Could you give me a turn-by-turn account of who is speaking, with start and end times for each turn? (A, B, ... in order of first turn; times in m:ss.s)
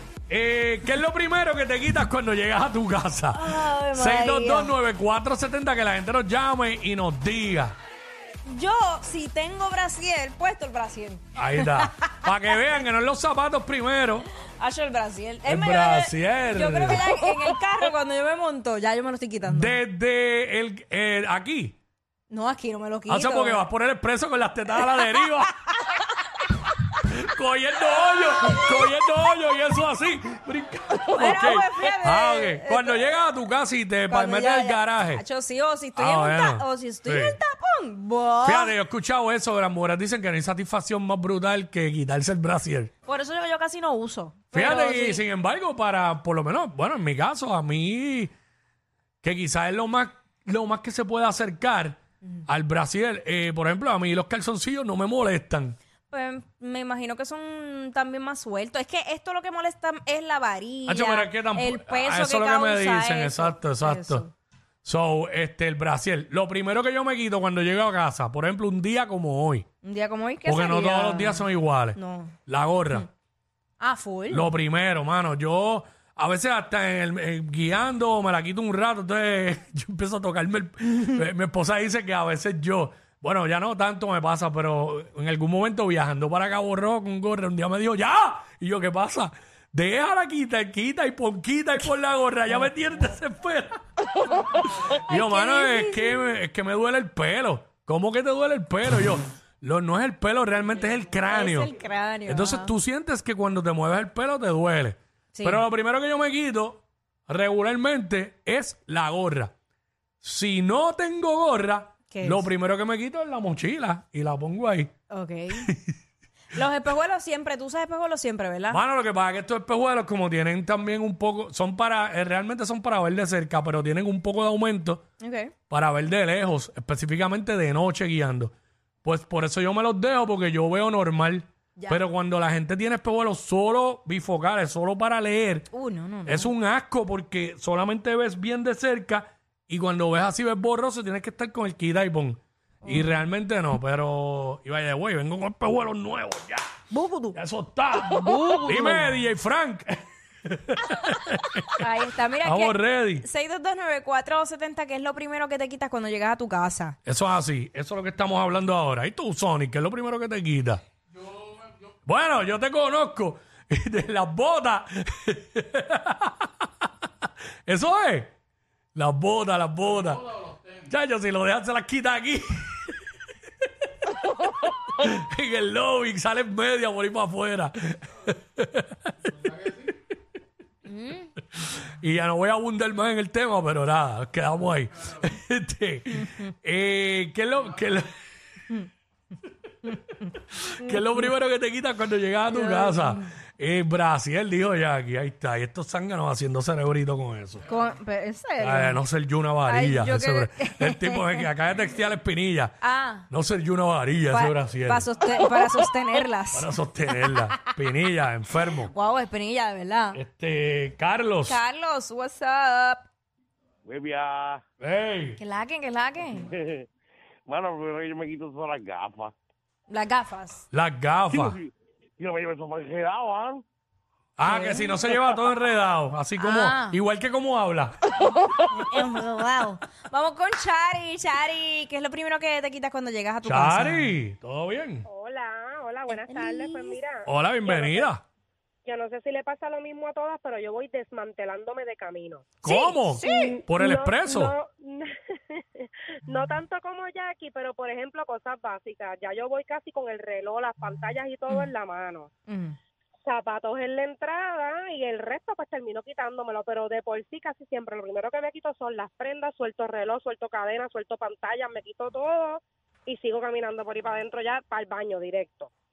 0:00.3-0:07.8 A
0:03.3-0:04.8 B
0:08.4-0:12.3 B
0:11.4-0:14.3 A
0:14.6-0:19.8 B
0:15.5-0:17.3 A
0:19.4-0:21.8 A
0:22.3-0:23.6 B
0:23.1-0:25.5 A
0:27.0-0:35.2 A
0:31.1-0:33.1 B
0:34.1-0:38.7 B
0:36.0-0:37.4 A
0:38.4-0:42.9 A
0:43.1-0:45.2 B
0:44.5-0:48.3 A
0:49.2-0:55.8 A
0:56.1-1:04.3 B
1:00.9-1:04.2 A
1:04.8-1:09.7 A
1:09.8-1:12.4 B
1:10.4-1:13.1 A
1:13.8-1:14.5 B
1:14.3-1:33.8 A
1:34.8-1:36.3 B
1:35.1-1:41.7 A
1:41.3-1:42.7 B
1:42.3-1:49.5 A
1:45.3-1:45.6 B
1:50.2-1:54.9 A
1:52.1-1:52.5 B
1:55.1-1:55.7 B
1:55.6-1:55.9 A
1:56.5-1:58.8 B
1:58.7-2:05.0 A
2:05.2-2:05.5 B
2:05.7-2:08.5 A
2:09.0-2:15.7 A
2:15.7-2:16.5 B
2:16.3-2:26.7 A
2:22.8-2:23.2 B
2:26.9-2:27.4 B
2:27.4-2:31.8 A
2:28.0-2:29.1 B
2:31.8-2:37.0 B
2:32.4-2:33.3 A
2:37.1-2:40.8 A
2:42.1-2:46.7 A
2:47.7-2:48.3 A
2:49.0-2:53.0 A
2:54.9-2:59.1 A
3:00.9-3:01.3 B
3:01.6-3:08.1 A
3:06.2-3:06.5 B
3:10.6-3:17.7 A
3:12.5-3:13.2 B
3:17.7-3:19.0 B
3:18.6-3:25.1 A
3:19.6-3:21.5 B
3:22.8-3:23.3 B
3:24.3-3:27.7 B
3:26.5-3:28.9 A
3:28.9-3:30.2 B
3:30.1-3:31.6 A
3:31.5-3:33.1 B
3:33.8-3:34.6 C
3:34.8-3:35.4 A
3:35.4-3:36.5 B
3:36.5-3:36.9 C
3:37.5-3:39.3 C
3:39.9-3:40.6 B
3:40.7-3:41.6 A
3:41.4-3:43.6 C
3:44.4-3:48.0 A
3:44.4-3:45.0 B
3:46.4-3:47.0 B
3:48.6-3:54.1 B
3:53.4-3:55.1 A
3:55.1-3:58.1 D
3:56.1-3:57.0 B
3:57.2-3:58.2 A
3:58.8-4:02.5 D
4:02.6-4:04.6 A
4:02.6-4:03.6 B
4:03.2-4:12.3 D
4:12.5-4:12.8 B
4:13.3-4:25.7 D